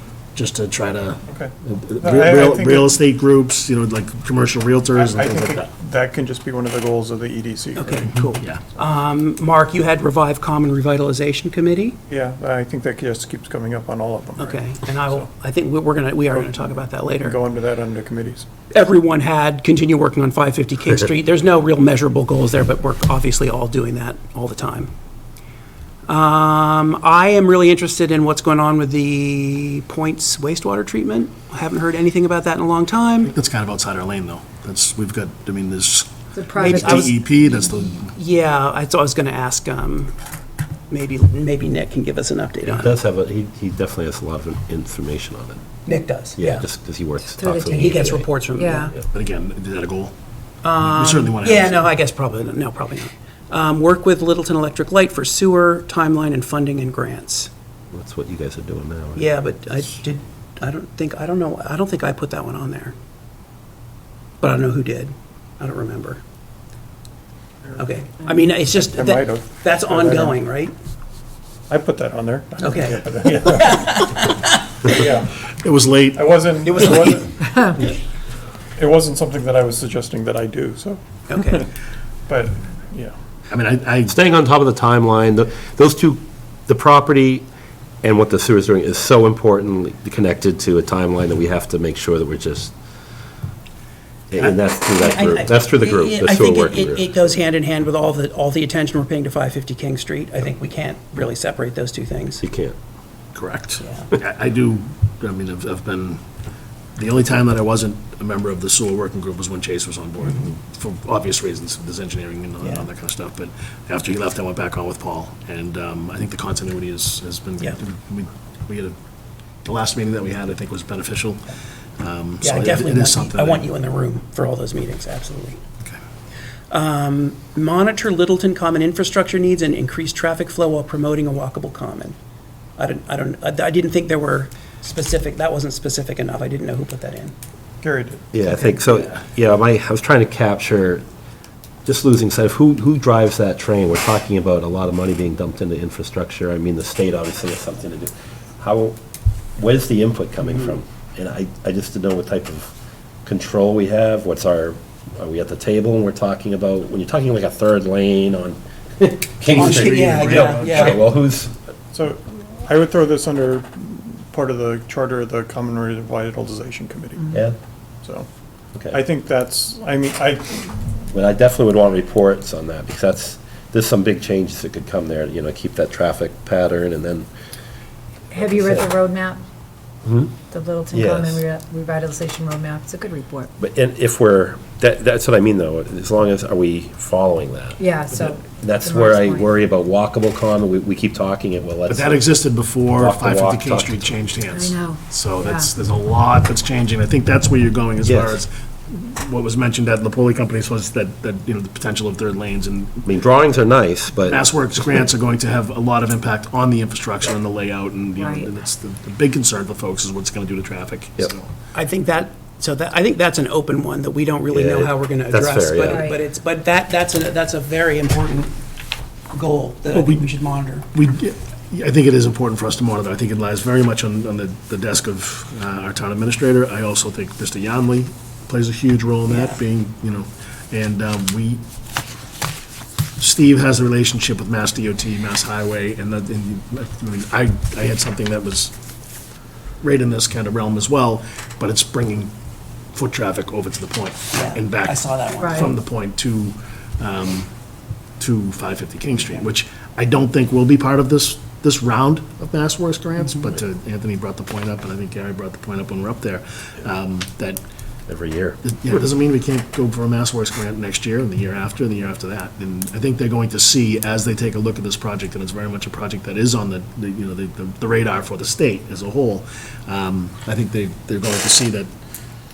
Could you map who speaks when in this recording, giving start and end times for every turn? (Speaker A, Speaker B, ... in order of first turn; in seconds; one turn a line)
Speaker A: 0.3-5.7
Speaker B: 1.3-3.0
Speaker B: 4.9-8.1
Speaker C: 7.8-12.0
Speaker A: 8.1-8.6
Speaker B: 12.1-15.3
Speaker C: 14.4-17.4
Speaker B: 17.2-18.5
Speaker C: 18.7-24.9
Speaker C: 26.1-33.3
Speaker A: 33.2-38.1
Speaker D: 36.3-37.1
Speaker C: 36.6-37.2
Speaker C: 38.1-40.1
Speaker C: 40.9-43.0
Speaker E: 42.7-45.6
Speaker C: 45.9-46.6
Speaker E: 46.4-48.2
Speaker D: 47.3-48.9
Speaker C: 47.7-49.0
Speaker A: 49.1-50.1
Speaker C: 50.6-57.5
Speaker A: 50.8-51.9
Speaker E: 57.9-59.3
Speaker C: 59.2-63.0
Speaker C: 64.4-66.2
Speaker C: 67.8-70.7
Speaker B: 68.9-70.4
Speaker B: 71.7-74.0
Speaker C: 72.6-75.0
Speaker B: 74.8-75.3
Speaker A: 75.5-76.4
Speaker B: 76.1-77.8
Speaker C: 76.7-77.6
Speaker B: 78.8-81.7
Speaker C: 81.3-81.7
Speaker B: 82.3-83.1
Speaker A: 83.5-84.2
Speaker E: 84.1-87.5
Speaker E: 88.0-92.7
Speaker E: 94.3-97.1
Speaker C: 95.0-102.4
Speaker E: 102.4-102.8
Speaker A: 103.3-106.2
Speaker C: 103.8-104.1
Speaker A: 107.0-119.0
Speaker A: 119.7-121.4
Speaker A: 122.0-123.7
Speaker C: 122.4-125.6
Speaker C: 126.7-132.2
Speaker C: 132.8-137.3
Speaker B: 137.8-138.2
Speaker E: 138.3-141.0
Speaker C: 138.4-139.1
Speaker E: 141.8-149.0
Speaker E: 149.6-152.7
Speaker E: 153.2-161.5
Speaker A: 159.5-161.0
Speaker C: 159.5-161.0
Speaker B: 161.9-167.4
Speaker B: 168.9-170.9
Speaker E: 171.1-177.3
Speaker D: 178.3-179.4
Speaker E: 178.4-178.9
Speaker E: 180.1-180.3
Speaker D: 180.5-183.5
Speaker E: 180.9-181.4
Speaker E: 183.6-187.8
Speaker D: 187.8-189.5
Speaker E: 188.4-192.2
Speaker A: 191.9-203.1
Speaker E: 193.0-194.1
Speaker D: 194.5-195.7
Speaker E: 198.0-198.4
Speaker E: 203.1-204.4
Speaker A: 204.2-211.5
Speaker D: 208.2-208.5
Speaker C: 211.7-218.5
Speaker E: 214.5-216.1
Speaker D: 215.9-216.2
Speaker C: 219.3-220.8
Speaker A: 219.9-220.2
Speaker A: 220.9-231.6
Speaker C: 229.3-229.6
Speaker A: 233.2-238.7
Speaker A: 239.8-242.3
Speaker A: 242.9-247.5
Speaker C: 244.3-245.7
Speaker A: 248.2-257.6
Speaker E: 258.1-258.6
Speaker A: 258.6-271.9